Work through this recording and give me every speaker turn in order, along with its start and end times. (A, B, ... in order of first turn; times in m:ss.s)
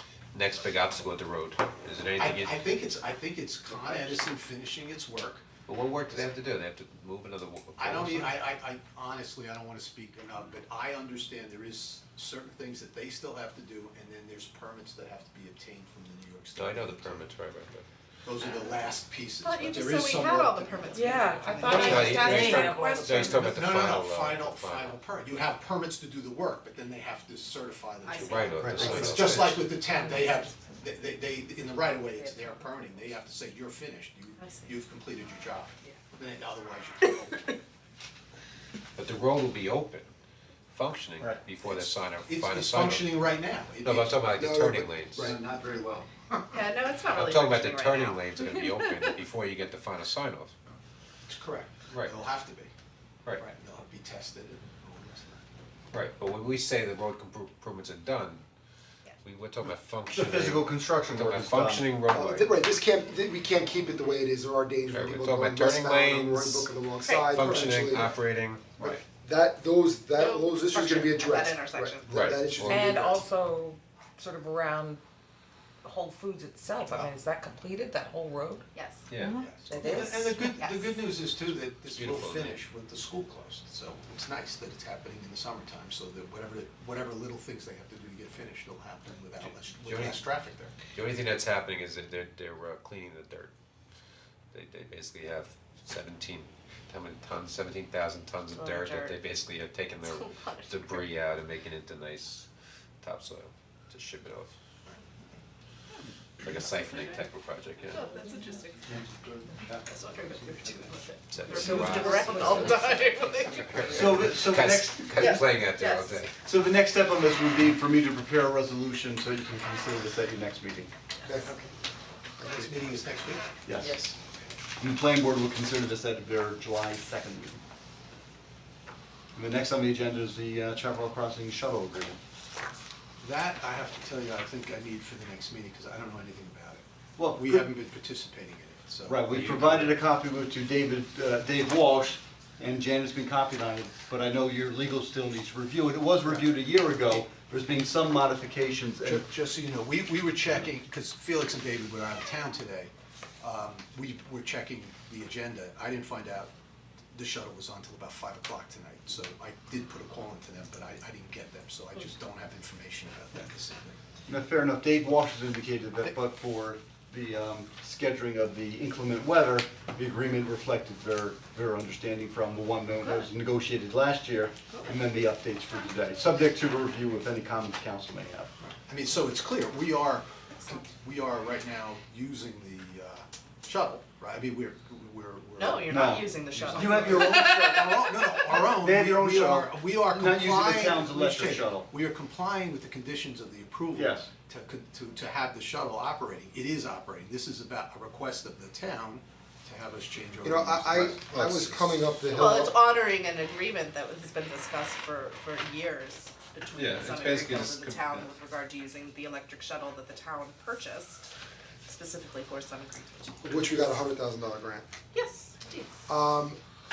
0:00.3-0:02.6 A
0:02.2-0:05.5 B
0:05.7-0:08.4 A
0:07.8-0:17.3 B
0:16.5-0:17.8 A
0:18.2-0:22.0 B
0:19.4-0:23.3 C
0:20.9-0:23.6 D
0:21.7-0:25.0 A
0:23.2-0:37.6 B
0:28.0-0:29.2 C
0:28.2-0:29.6 A
0:28.6-0:29.5 E
0:30.0-0:30.4 D
0:32.2-0:32.5 D
0:34.4-0:34.7 C
0:39.0-0:40.1 A
0:40.7-0:43.2 A
0:41.2-0:44.3 B
0:43.8-0:45.3 A
0:44.3-0:45.4 F
0:45.2-0:46.1 E
0:46.5-0:49.1 C
0:47.1-0:50.5 A
0:51.3-0:52.7 B
0:51.9-0:52.2 A
0:53.4-0:55.5 B
0:55.9-0:58.4 A
0:59.2-1:02.5 A
1:00.1-1:01.9 E
1:02.1-1:08.2 F
1:04.9-1:06.7 A
1:07.0-1:07.3 C
1:07.2-1:09.0 A
1:08.8-1:13.2 F
1:10.2-1:12.4 C
1:12.1-1:13.0 A
1:12.6-1:15.0 D
1:15.8-1:18.6 D
1:16.8-1:17.1 B
1:18.7-1:19.1 C
1:19.1-1:19.5 A
1:19.4-1:30.8 B
1:19.7-1:20.5 D
1:20.5-1:20.9 C
1:21.9-1:22.6 A
1:29.8-1:30.3 A
1:30.9-1:33.5 A
1:34.5-1:42.5 A
1:38.5-1:39.2 C
1:40.0-1:41.0 C
1:43.0-1:44.5 A
1:46.4-1:48.1 A
1:46.8-1:47.2 C
1:47.9-1:48.9 C
1:49.0-1:49.8 E
1:49.8-1:54.2 C
1:51.3-1:52.9 A
1:51.5-1:53.1 D
1:53.5-1:56.3 A
1:53.9-1:55.5 E
1:55.7-1:56.3 C
1:56.4-2:00.9 E
2:02.4-2:03.5 B
2:03.6-2:04.0 E
2:03.9-2:04.1 D
2:04.8-2:07.6 E
2:09.4-2:12.2 E
2:13.2-2:19.8 B
2:17.2-2:17.7 E
2:19.1-2:29.2 E
2:19.3-2:20.0 A
2:29.0-2:36.5 B
2:37.1-2:44.0 B
2:44.3-2:58.5 E
2:58.6-3:05.9 B
3:00.5-3:00.9 C
3:05.6-3:08.1 C
3:05.9-3:07.9 E
3:06.7-3:22.0 B
3:08.5-3:11.9 E
3:14.0-3:14.3 E
3:20.4-3:22.8 F
3:22.3-3:31.3 C
3:26.7-3:28.3 A
3:31.8-3:33.4 C
3:33.4-3:34.9 F
3:35.1-3:36.0 C
3:36.1-3:36.6 F